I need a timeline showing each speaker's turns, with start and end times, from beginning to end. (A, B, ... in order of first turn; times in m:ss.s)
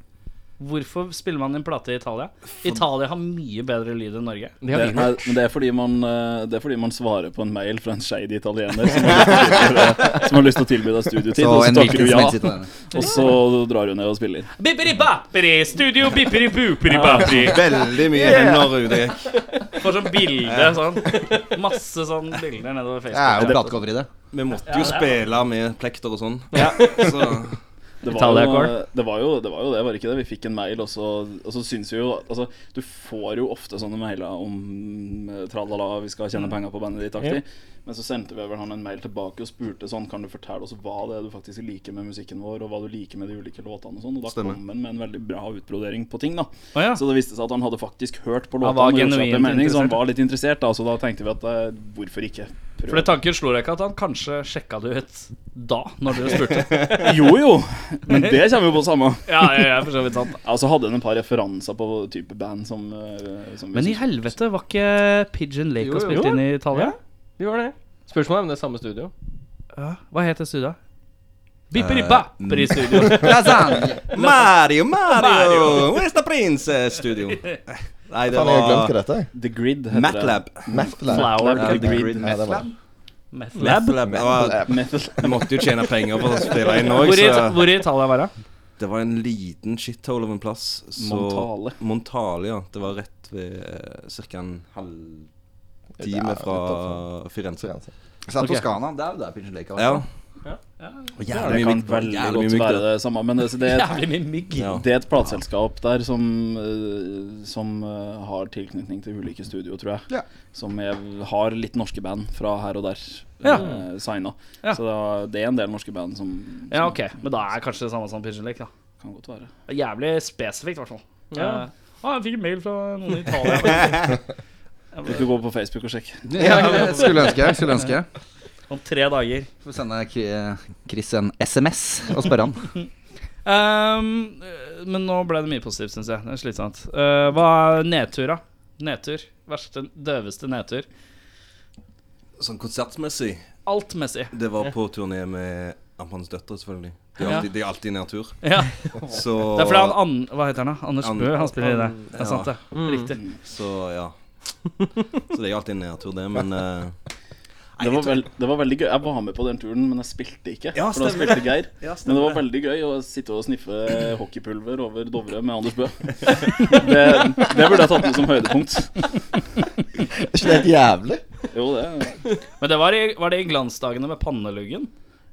0:00.6-0:04.6 A
0:04.6-0:05.2 B
0:04.7-0:14.5 C
0:11.4-0:12.7 D
0:12.9-0:13.2 A
0:14.6-0:17.6 A
0:16.9-0:17.4 C
0:17.3-0:19.6 E
0:18.1-0:18.8 D
0:19.7-0:23.8 A
0:20.4-0:20.8 E
0:23.1-0:24.1 D
0:24.3-0:27.6 E
0:24.7-0:25.2 A
0:26.6-0:27.0 A
0:28.0-0:53.2 C
0:28.1-0:28.7 A
0:44.3-0:44.6 E
0:46.7-0:47.0 A
0:48.6-0:50.0 A
0:52.9-0:57.1 A
0:57.0-1:04.2 C
0:59.3-1:00.4 A
1:03.7-1:07.0 A
1:05.8-1:06.3 D
1:06.1-1:09.1 B
1:09.8-1:10.8 A
1:11.7-1:13.4 A
1:11.8-1:13.0 E
1:12.9-1:14.2 D
1:14.0-1:19.0 E
1:15.1-1:16.0 A
1:18.3-1:19.3 F
1:19.3-1:22.3 C
1:19.9-1:20.7 E
1:20.7-1:22.7 F
1:21.1-1:22.7 A
1:21.6-1:22.6 D
1:23.3-1:24.0 A
1:23.6-1:27.8 E
1:24.3-1:25.9 C
1:26.9-1:28.3 A
1:28.8-1:35.3 E
1:31.0-1:31.8 C
1:36.0-1:37.1 F
1:36.0-1:37.7 E
1:37.6-1:37.9 F
1:38.3-1:40.0 D
1:38.4-1:38.6 A
1:39.8-1:40.1 E
1:41.2-1:42.9 E
1:41.3-1:44.0 C
1:43.6-1:44.8 A
1:44.6-1:44.8 E
1:44.7-1:57.0 C
1:53.4-1:53.7 A
1:53.5-1:53.8 B
1:56.7-1:58.7 A
1:59.0-1:59.5 C
1:59.7-2:04.2 A
2:01.3-2:01.6 B
2:04.9-2:05.2 A
2:05.0-2:07.0 C
2:06.3-2:08.1 D
2:06.4-2:07.2 B
2:08.7-2:09.5 A
2:09.6-2:12.7 D
2:13.4-2:20.9 A
2:22.4-2:23.5 E
2:23.7-2:24.3 A
2:24.3-2:28.4 E
2:27.2-2:27.5 A
2:28.4-2:28.8 A
2:29.1-2:30.0 E
2:29.5-2:33.2 A
2:31.0-2:32.6 E
2:32.7-2:33.1 B
2:33.4-2:34.1 E
2:35.3-2:36.9 E
2:37.8-2:38.2 E
2:37.8-2:49.1 C
2:40.7-2:42.4 E
2:50.2-2:51.2 F
2:51.5-2:52.2 C
2:52.6-2:54.9 A